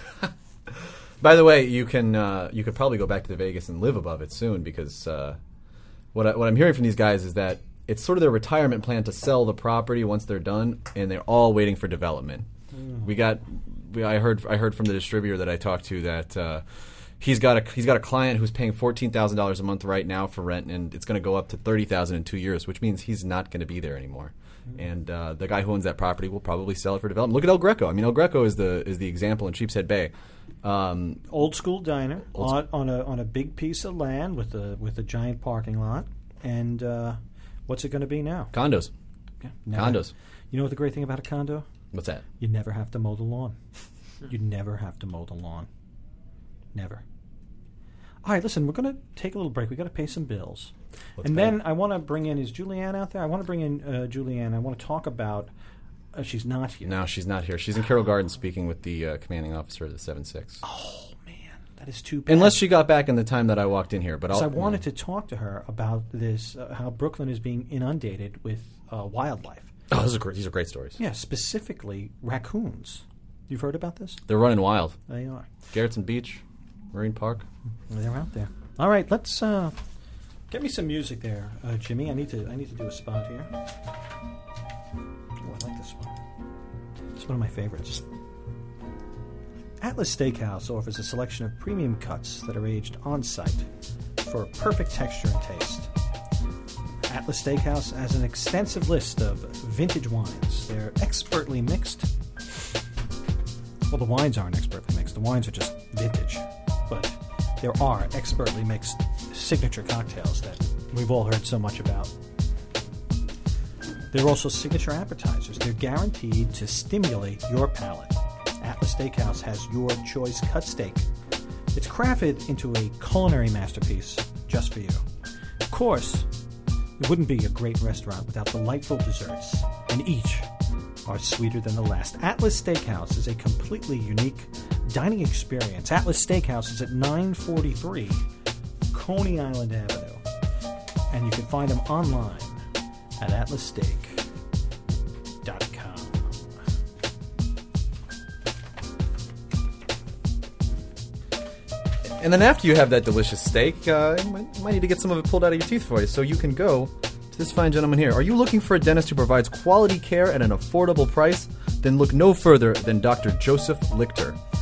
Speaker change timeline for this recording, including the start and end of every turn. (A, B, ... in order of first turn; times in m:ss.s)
0:01.2-0:05.4 A
0:06.1-0:12.5 A
0:13.0-0:16.6 A
0:17.2-0:30.1 A
0:30.6-0:31.3 A
0:31.3-0:38.5 B
0:32.4-0:32.6 A
0:38.5-0:38.9 A
0:39.4-0:41.7 B
0:39.7-0:40.1 A
0:41.9-0:42.2 A
0:42.4-0:43.6 B
0:44.3-0:45.7 B
0:46.7-0:47.0 B
0:48.2-0:55.5 B
0:51.2-0:51.6 A
0:56.1-0:56.9 B
0:56.8-1:00.6 A
1:00.6-1:02.7 B
1:02.3-1:04.8 A
1:04.3-1:09.7 B
1:09.9-1:11.0 A
1:11.0-1:14.2 B
1:14.3-1:15.0 A
1:15.1-1:15.5 B
1:15.7-1:16.4 A
1:16.9-1:17.5 A
1:17.9-1:19.8 B
1:20.5-1:23.5 B
1:25.4-1:26.2 B
1:27.2-1:28.0 B
1:29.8-1:33.7 B
1:34.2-1:35.9 B
1:37.1-1:42.1 B
1:43.9-1:52.1 B
1:54.1-2:01.1 B
2:01.7-2:05.0 B
2:05.7-2:06.3 B
2:07.0-2:10.5 B
2:11.1-2:18.2 B
2:18.9-2:20.2 B
2:21.1-2:22.6 B
2:23.2-2:24.2 B
2:25.4-2:26.3 B
2:32.2-2:44.4 A